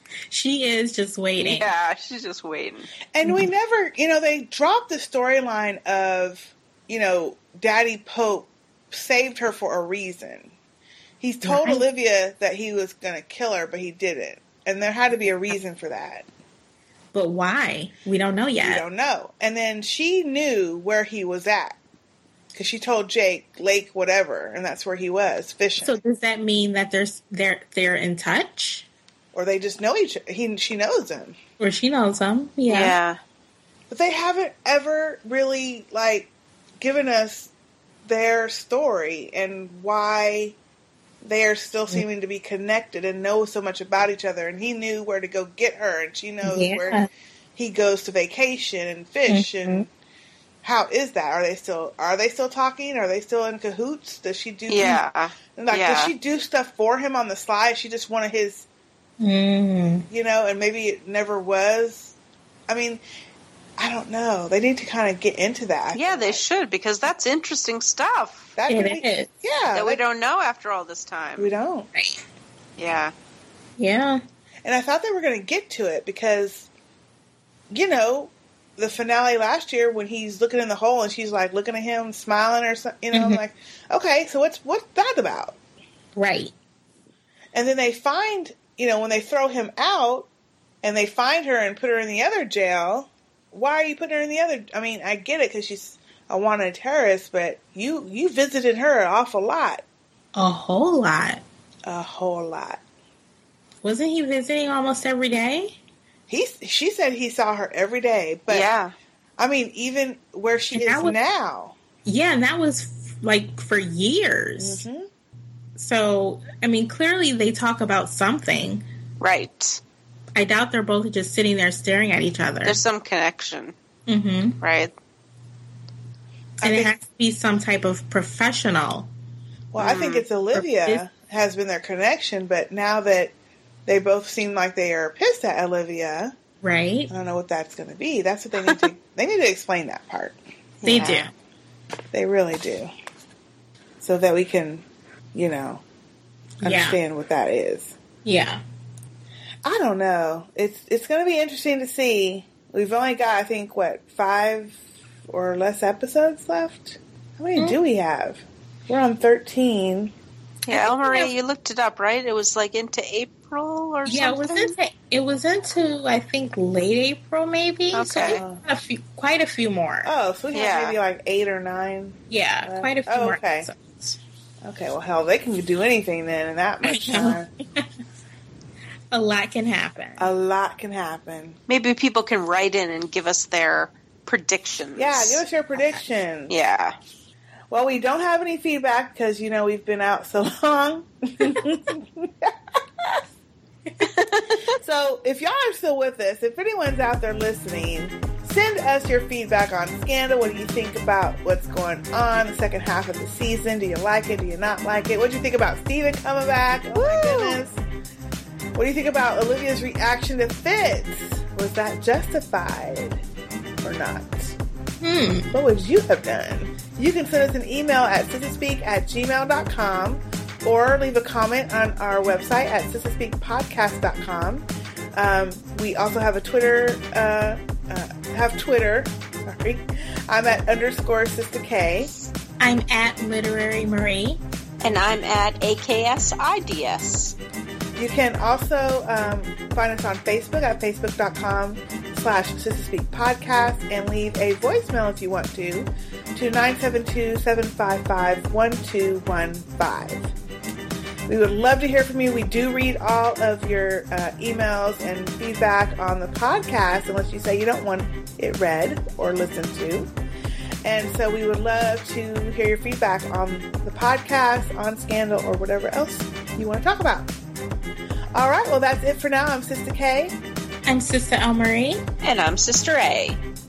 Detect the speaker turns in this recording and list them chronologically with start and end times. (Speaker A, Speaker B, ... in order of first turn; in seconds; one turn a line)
Speaker A: 0.3-1.7
Speaker B: 1.4-2.9
Speaker C: 3.1-10.5
Speaker A: 3.2-3.5
Speaker C: 11.2-16.2
Speaker A: 11.4-11.8
Speaker A: 17.1-18.8
Speaker C: 18.6-21.8
Speaker C: 22.5-26.0
Speaker A: 25.8-28.9
Speaker C: 29.3-31.4
Speaker A: 31.6-33.0
Speaker B: 32.7-33.2
Speaker C: 33.9-37.5
Speaker C: 38.0-40.6
Speaker C: 41.2-47.0
Speaker A: 46.4-47.1
Speaker C: 47.5-49.9
Speaker A: 49.3-49.9
Speaker C: 50.6-55.0
Speaker B: 54.7-56.1
Speaker C: 55.5-58.7
Speaker A: 59.2-60.1
Speaker C: 60.1-62.1
Speaker C: 62.7-63.0
Speaker C: 63.8-66.4
Speaker B: 65.9-68.5
Speaker C: 68.5-70.0
Speaker A: 68.7-69.3
Speaker B: 69.7-71.5
Speaker C: 71.4-71.9
Speaker A: 71.9-72.2
Speaker B: 72.8-73.1
Speaker A: 73.8-74.2
Speaker C: 74.6-76.7
Speaker C: 77.7-85.6
Speaker A: 83.1-83.4
Speaker A: 86.2-86.5
Speaker C: 87.5-90.3
Speaker C: 90.8-99.8
Speaker A: 100.3-101.4
Speaker C: 101.8-102.8
Speaker A: 103.8-105.8
Speaker C: 106.3-108.7
Speaker B: 108.5-108.9
Speaker C: 109.4-111.8
Speaker A: 110.7-111.2
Speaker A: 112.0-114.8
Speaker C: 114.6-115.1
Speaker A: 115.8-118.8
Speaker B: 119.2-119.8
Speaker A: 120.3-122.8
Speaker B: 122.6-123.7
Speaker A: 124.1-124.6
Speaker B: 124.6-124.9
Speaker C: 126.6-127.0
Speaker A: 126.6-129.1
Speaker C: 129.7-133.3
Speaker B: 129.8-130.2
Speaker A: 130.5-131.0
Speaker C: 133.8-136.3
Speaker A: 136.6-137.1
Speaker C: 137.1-140.4
Speaker B: 140.8-141.3
Speaker A: 140.8-141.3
Speaker C: 142.1-142.9
Speaker C: 144.0-145.8
Speaker A: 146.6-147.0
Speaker C: 146.6-147.9
Speaker A: 148.2-148.6
Speaker C: 149.6-160.1
Speaker B: 160.7-164.7
Speaker A: 160.7-161.3
Speaker A: 164.1-170.1
Speaker B: 167.9-168.4
Speaker C: 168.2-168.6
Speaker C: 170.0-173.7
Speaker B: 170.5-171.0
Speaker A: 172.3-174.2
Speaker C: 174.6-177.5
Speaker A: 176.8-177.8
Speaker A: 179.1-180.3
Speaker C: 180.2-181.6
Speaker B: 181.7-185.4
Speaker C: 185.0-186.5
Speaker B: 186.5-186.9
Speaker C: 187.7-193.2
Speaker B: 194.0-194.7
Speaker C: 194.7-207.8
Speaker B: 206.9-207.6
Speaker C: 208.7-213.2
Speaker C: 213.8-214.6
Speaker A: 215.0-215.6
Speaker C: 215.5-224.6
Speaker C: 225.2-232.1
Speaker A: 232.6-234.4
Speaker B: 234.8-237.3
Speaker C: 238.0-250.3
Speaker C: 251.3-260.1
Speaker C: 260.8-267.3
Speaker C: 268.3-270.4
Speaker A: 270.9-272.0
Speaker B: 272.2-273.4